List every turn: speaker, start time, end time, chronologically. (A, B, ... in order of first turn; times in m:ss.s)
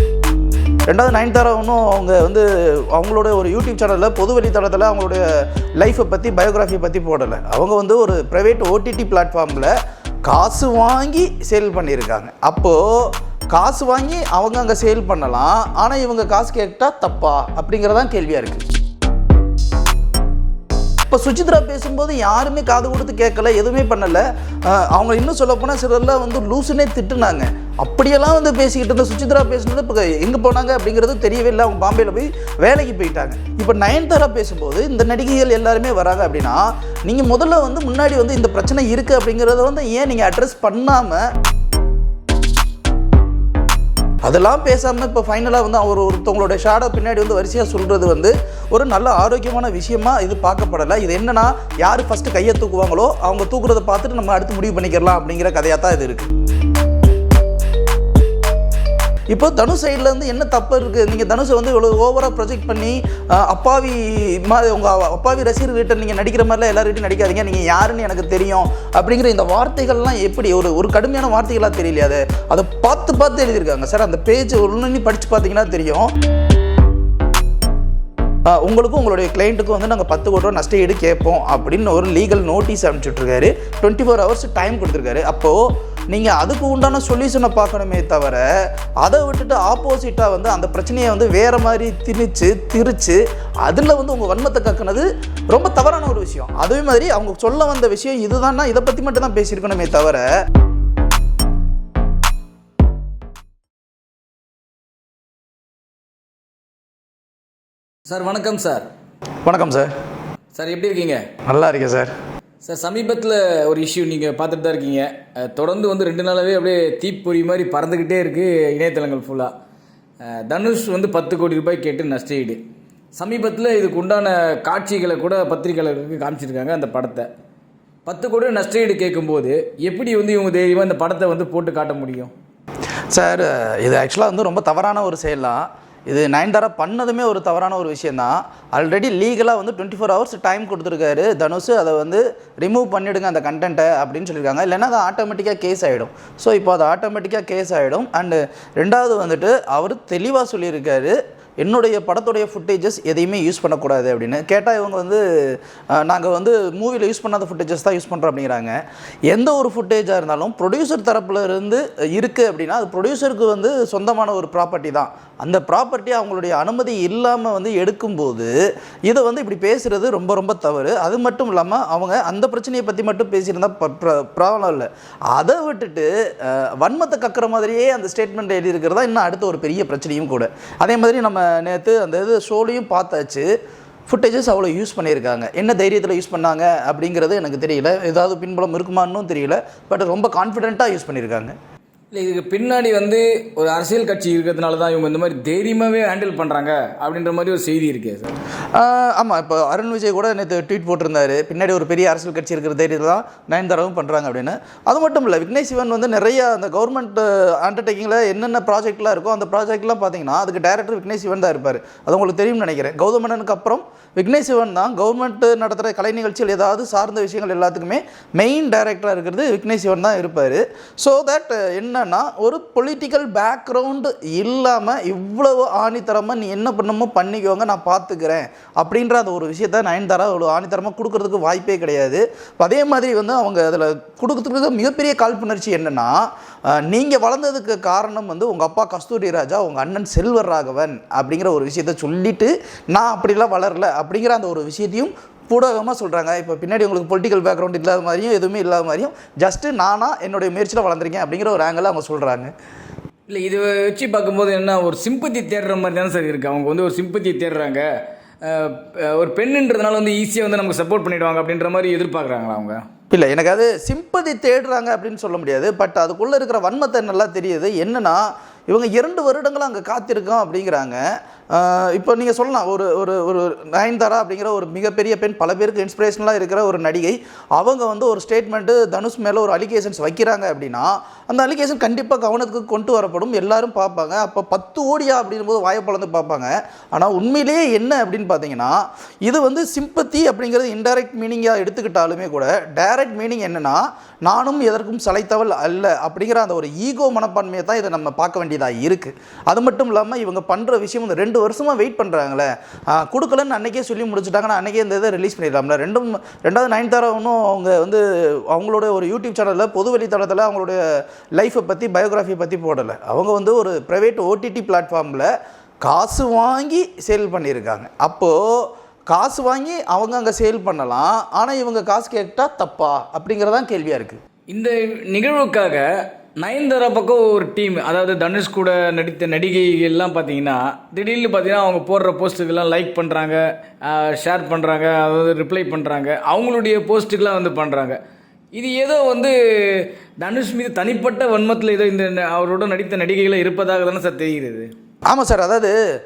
0:00.9-0:05.2 A
0:05.8-0:09.7 A
0:10.2-0:18.6 A
0:21.1-0:41.2 A
0:44.2-0:56.3 A
0:59.3-1:16.1 A
1:18.5-1:28.4 A
1:29.0-1:40.2 A
1:48.1-1:48.9 B
1:49.4-1:49.9 A
1:50.5-1:51.2 B
1:51.5-1:52.1 A
1:52.6-1:59.5 B
2:00.2-2:02.6 B
2:03.2-2:07.3 B
2:08.0-2:12.3 B
2:13.1-2:35.2 A
2:35.9-2:38.8 A
2:39.3-2:48.5 A
2:49.1-3:03.5 A
3:04.1-3:11.5 A
3:12.1-3:18.3 B
3:18.8-3:56.1 A
3:56.7-4:12.5 A
4:13.3-4:17.8 B
4:18.4-4:22.8 B
4:23.1-4:31.0 A
4:31.5-5:10.8 A
5:11.4-5:15.3 A
5:15.8-5:24.2 A
5:24.5-5:25.8 B
5:26.4-5:38.0 B
5:38.5-5:44.7 B
5:45.1-5:45.7 A